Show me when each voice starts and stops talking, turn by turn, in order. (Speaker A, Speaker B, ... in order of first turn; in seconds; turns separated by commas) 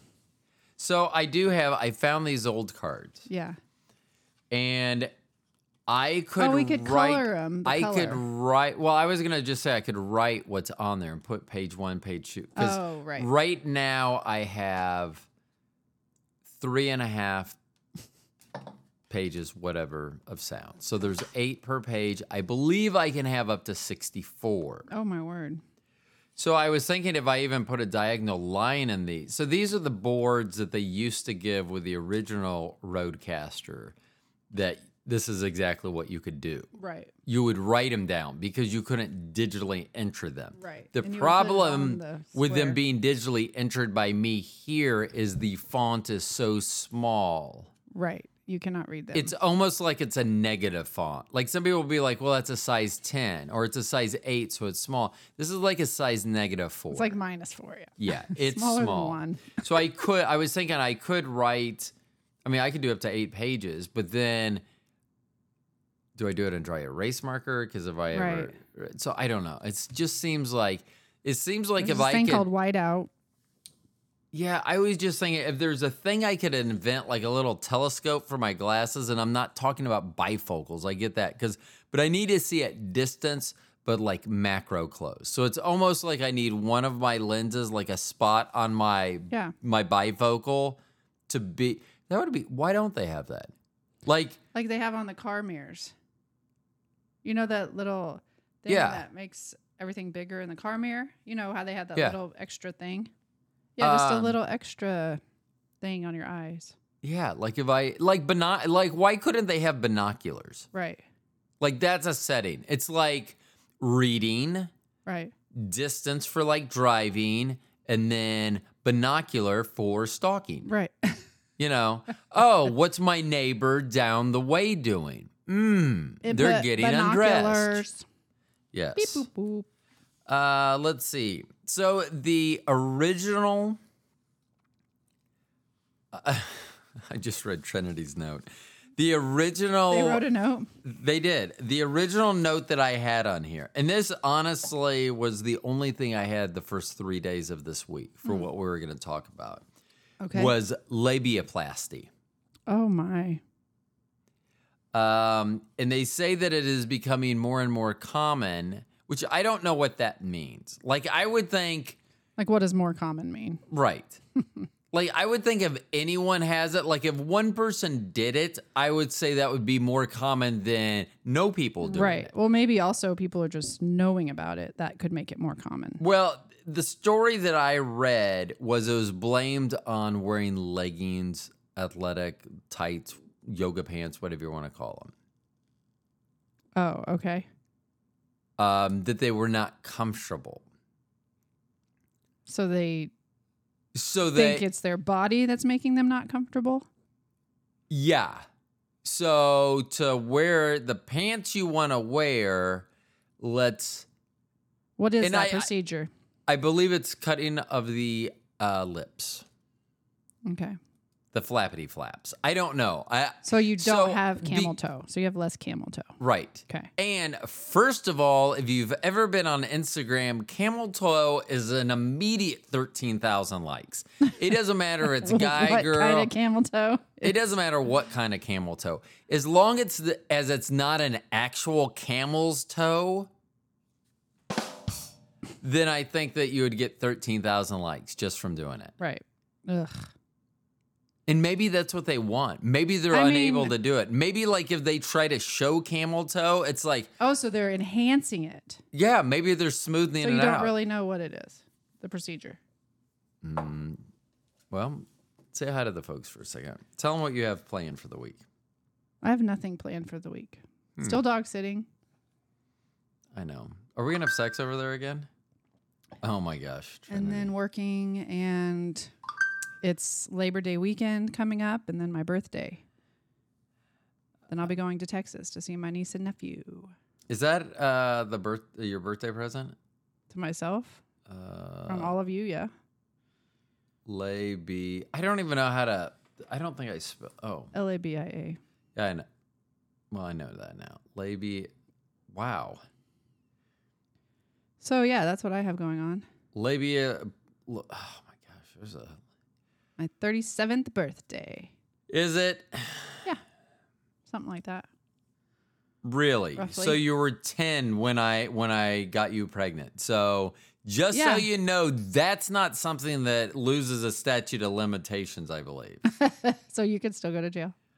Speaker A: 0.8-3.3, Speaker B: 3.3-3.6, Speaker A: 4.5-5.1, Speaker A: 5.9-15.3, Speaker B: 6.4-8.2, Speaker B: 12.6-13.3, Speaker A: 16.6-17.6, Speaker A: 19.1-24.9, Speaker B: 24.9-25.6, Speaker A: 26.4-34.0, Speaker A: 34.5-36.7, Speaker B: 36.8-37.1, Speaker A: 37.3-47.7, Speaker B: 40.6-42.8, Speaker B: 47.9-49.3, Speaker A: 49.1-57.2, Speaker B: 56.9-59.6, Speaker A: 58.0-61.9, Speaker A: 62.5-64.6, Speaker A: 66.2-72.5, Speaker B: 68.1-68.5, Speaker B: 71.8-73.1, Speaker A: 74.3-93.5, Speaker A: 94.0-94.4, Speaker B: 94.5-95.9, Speaker B: 97.2-103.1, Speaker A: 98.7-99.0, Speaker B: 103.8-105.2, Speaker A: 103.8-104.4, Speaker B: 105.8-106.8, Speaker A: 107.0-110.7, Speaker B: 110.7-111.0, Speaker A: 111.6-114.7, Speaker B: 115.1-115.3, Speaker A: 115.5-120.7, Speaker B: 120.7-121.2, Speaker A: 121.6-127.8, Speaker B: 126.2-128.0, Speaker A: 128.7-129.3, Speaker B: 129.0-129.7, Speaker A: 130.3-133.8, Speaker A: 136.1-140.2, Speaker B: 139.9-140.7, Speaker A: 140.8-149.6, Speaker B: 150.2-150.5, Speaker A: 150.3-152.1, Speaker B: 152.7-153.4, Speaker A: 154.9-162.0, Speaker B: 162.4-163.6, Speaker A: 163.7-164.2, Speaker B: 164.4-164.7, Speaker A: 164.9-172.3, Speaker B: 171.8-176.0, Speaker A: 176.0-185.1, Speaker B: 186.8-187.5, Speaker A: 188.6-190.6, Speaker B: 192.5-193.1, Speaker A: 193.9-194.7, Speaker B: 194.3-196.9, Speaker A: 197.9-198.4, Speaker A: 199.0-202.9, Speaker A: 203.4-204.1, Speaker B: 205.0-206.1, Speaker A: 205.2-205.7, Speaker A: 206.5-209.4, Speaker B: 210.5-210.8, Speaker A: 211.3-214.8, Speaker B: 213.4-216.1, Speaker A: 216.2-226.3, Speaker B: 225.2-227.4, Speaker A: 227.2-233.3, Speaker A: 235.6-238.9, Speaker B: 239.0-240.1, Speaker A: 241.3-247.1, Speaker B: 243.1-243.8, Speaker B: 247.2-248.8, Speaker A: 248.9-250.8, Speaker B: 250.2-252.6, Speaker A: 253.4-254.0, Speaker A: 254.7-258.4, Speaker B: 259.2-261.9, Speaker A: 263.3-265.3, Speaker A: 266.2-267.5, Speaker B: 267.1-269.1, Speaker B: 269.8-272.8, Speaker B: 274.5-276.9, Speaker A: 277.3-279.8, Speaker B: 280.3-281.0, Speaker A: 281.3-282.1, Speaker B: 281.9-282.7, Speaker A: 284.1-287.7, Speaker B: 287.7-288.6, Speaker A: 288.9-289.3, Speaker A: 290.1-291.7, Speaker A: 292.3-292.8, Speaker B: 294.8-296.3, Speaker A: 296.5-299.2, Speaker B: 300.0-301.7, Speaker A: 302.1-303.3, Speaker B: 304.3-304.9, Speaker A: 306.0-316.0, Speaker B: 306.6-307.0, Speaker B: 311.1-311.5, Speaker B: 316.1-317.8